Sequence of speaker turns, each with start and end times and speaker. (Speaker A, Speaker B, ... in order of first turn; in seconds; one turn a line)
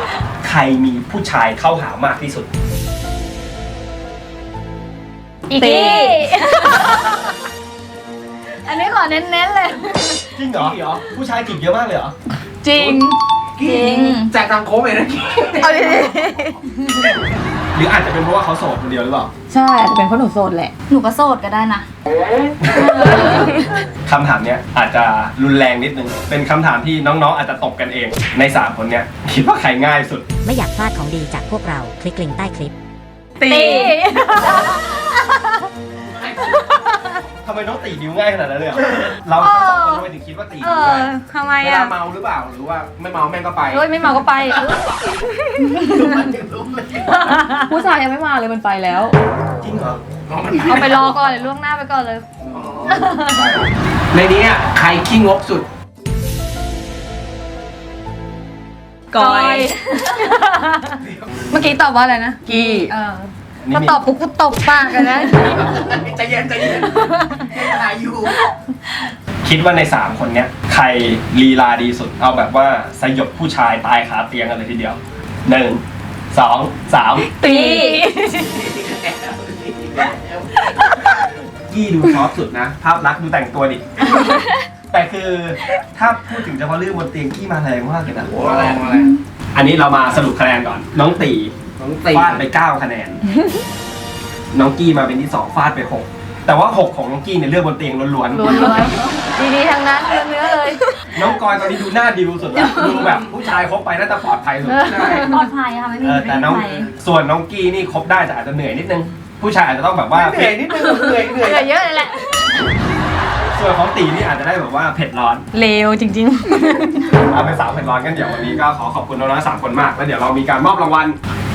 Speaker A: 0.4-2.5
Speaker B: 5.5-7.3
Speaker C: 5.5-6.2
Speaker B: 8.6-10.2
Speaker A: 10.3-12.2
Speaker C: 12.6-13.2
Speaker D: 12.8-13.1
Speaker D: 13.6-16.1
Speaker E: 13.7-14.3
Speaker C: 15.6-16.6
Speaker A: 17.7-19.3
Speaker C: 19.5-20.7
Speaker E: 20.9-21.9
Speaker A: 22.6-23.5
Speaker C: 23.2-23.7
Speaker A: 24.1-30.2
Speaker F: 30.4-32.7
Speaker C: 33.4-33.9
Speaker B: 33.4-35.6
Speaker D: 36.1-36.6
Speaker A: 37.4-41.1
Speaker B: 39.4-40.0
Speaker B: 40.6-41.9
Speaker D: 41.6-43.8
Speaker B: 43.7-44.9
Speaker D: 45.7-47.4
Speaker B: 47.2-47.7
Speaker C: 47.6-49.2
Speaker A: 49.6-50.0
Speaker D: 50.3-51.2
Speaker B: 50.7-52.2
Speaker D: 52.4-55.7
Speaker B: 52.9-53.4
Speaker C: 59.1-59.8
Speaker B: 59.1-60.9
Speaker B: 61.5-65.7
Speaker C: 62.5-62.9
Speaker A: 63.6-64.0
Speaker D: 65.2-68.3
Speaker B: 66.8-67.6
Speaker A: 69.4-77.3
Speaker B: 77.4-78.6
Speaker D: 78.5-80.5
Speaker A: 81.7-83.8
Speaker A: 84.9-88.8
Speaker D: 88.2-89.2
Speaker A: 89.5-91.5
Speaker D: 91.8-92.4
Speaker A: 92.1-93.2
Speaker A: 94.5-98.7
Speaker B: 98.3-100.8
Speaker A: 101.1-105.3
Speaker B: 104.7-105.4
Speaker D: 105.0-105.3
Speaker E: 105.3-106.9
Speaker A: 106.0-110.6
Speaker D: 110.1-111.7
Speaker B: 110.8-112.6
Speaker A: 113.5-115.4
Speaker B: 115.5-117.1
Speaker A: 117.2-121.2